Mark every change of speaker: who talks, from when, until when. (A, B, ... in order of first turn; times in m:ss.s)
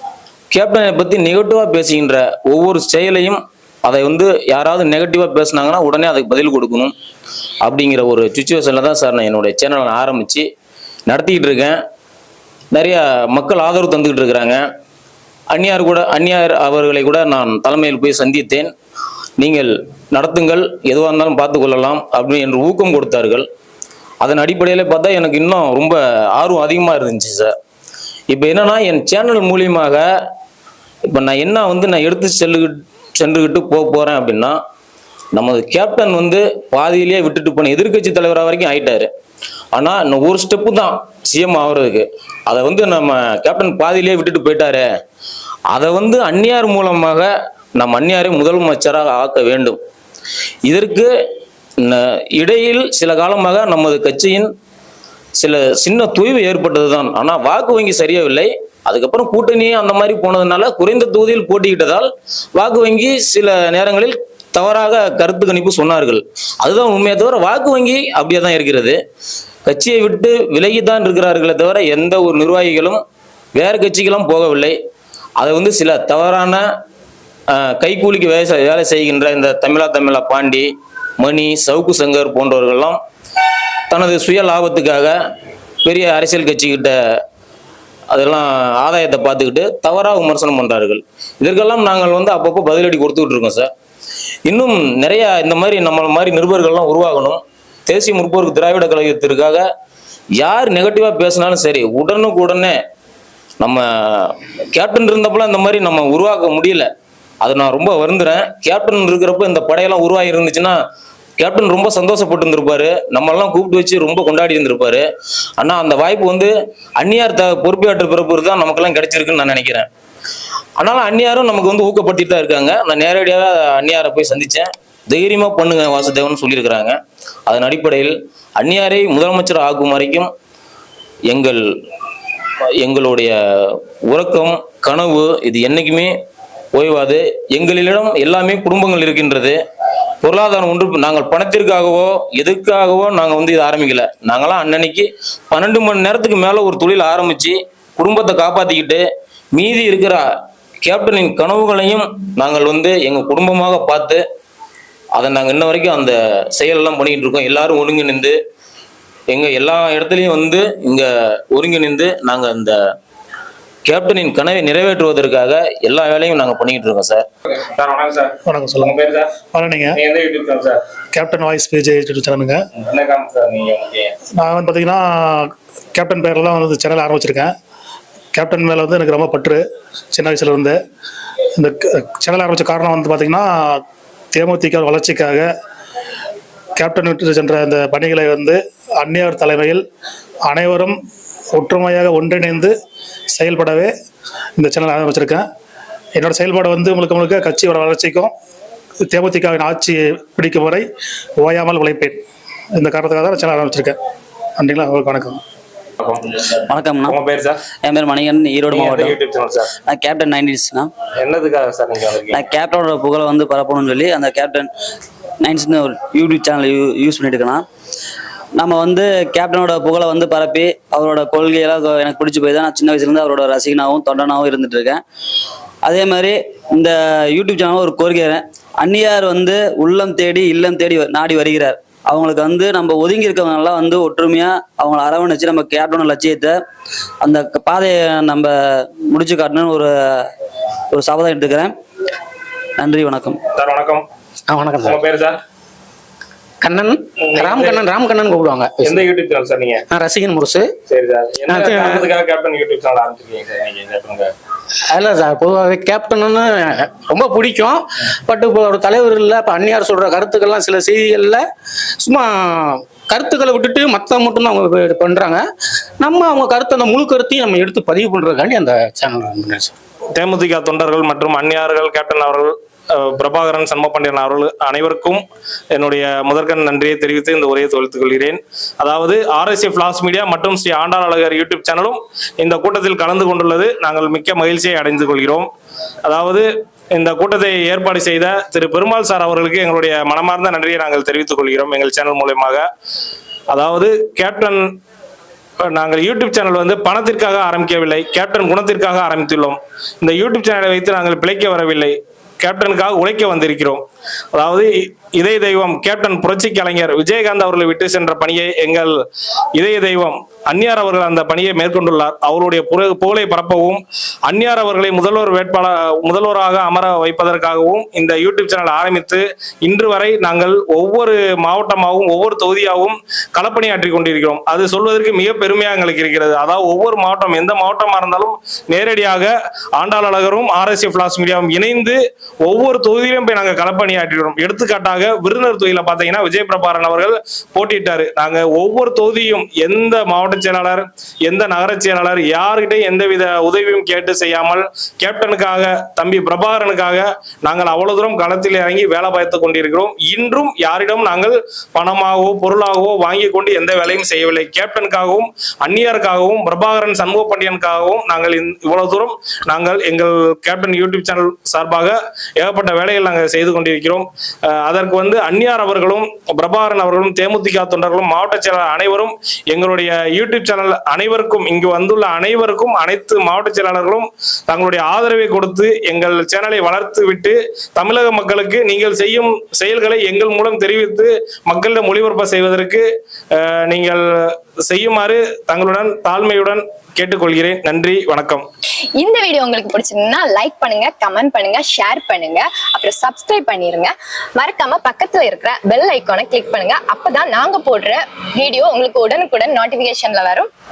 0:00.5-0:06.9 A
0:07.6-0:10.4 A
0:11.1-0:11.8 A
0:12.7-0:14.6 A
0:15.5-0:18.7 A
0:19.4-0:23.4 A
0:24.2-0:27.5 A
0:28.3-0:30.0 A
0:31.1-0:34.6 A
0:35.3-0:39.1 A
0:39.7-0:44.8 A
0:45.7-0:49.8 A
0:50.6-0:51.1 A
0:51.8-0:54.5 A
0:55.4-1:09.0 A
1:09.6-1:13.0 A
1:13.5-1:14.7 A
1:15.4-1:16.6 A
1:17.5-1:23.0 A
1:23.9-1:25.2 A
1:25.8-1:27.0 A
1:28.1-1:33.7 A
1:34.4-1:39.6 A
1:40.4-1:42.8 A
1:43.6-1:46.9 A
1:47.4-1:50.8 A
1:51.4-1:55.0 A
1:55.6-1:59.9 A
2:00.8-2:07.0 A
2:07.5-2:10.3 A
2:11.3-2:11.6 A
2:12.8-2:16.1 A
2:16.7-2:19.6 A
2:20.2-2:30.2 A
2:30.8-2:34.2 A
2:35.1-2:38.4 A
2:39.3-2:42.8 A
2:43.8-2:47.2 A
2:47.6-2:48.3 B
2:48.4-2:48.9 C
2:48.8-2:49.3 B
2:49.5-2:50.0 C
2:50.0-2:50.8 B
2:51.1-2:52.6 C
2:52.8-2:54.1 B
2:54.4-2:57.5 C
2:58.3-2:59.6 C
3:00.1-3:00.8 C
3:01.6-3:03.8 C
3:04.3-3:05.5 C
3:06.8-3:09.8 C
3:10.5-3:10.9 C
3:11.5-3:12.7 C
3:13.3-3:13.9 C
3:14.6-3:15.4 C
3:16.1-3:18.3 C
3:19.1-3:20.8 C
3:21.4-3:22.2 C
3:22.8-3:24.0 C
3:24.6-3:25.4 C
3:26.7-3:27.2 D
3:27.1-3:27.6 B
3:27.8-3:29.2 D
3:28.7-3:29.7 B
3:29.8-3:30.9 D
3:31.2-3:32.4 B
3:32.3-3:34.7 D
3:35.4-3:37.6 D
3:38.5-3:45.0 D
3:45.8-3:56.6 D
3:57.2-4:00.3 D
4:00.9-4:01.7 D
4:02.8-4:03.4 D
4:03.5-4:04.0 B
4:04.5-4:05.0 E
4:04.8-4:05.4 B
4:06.6-4:09.0 E
4:07.2-4:07.9 B
4:08.8-4:09.8 B
4:09.9-4:10.7 E
4:10.9-4:14.3 B
4:11.5-4:12.1 E
4:14.9-4:21.4 E
4:22.0-4:25.4 E
4:26.0-4:29.7 E
4:30.1-4:45.5 B
4:46.0-4:52.6 B
4:53.5-4:54.6 B
4:55.7-5:03.8 B
5:04.3-5:08.9 B
5:09.6-6:24.0 B
6:24.7-6:28.4 B
6:29.0-6:40.5 F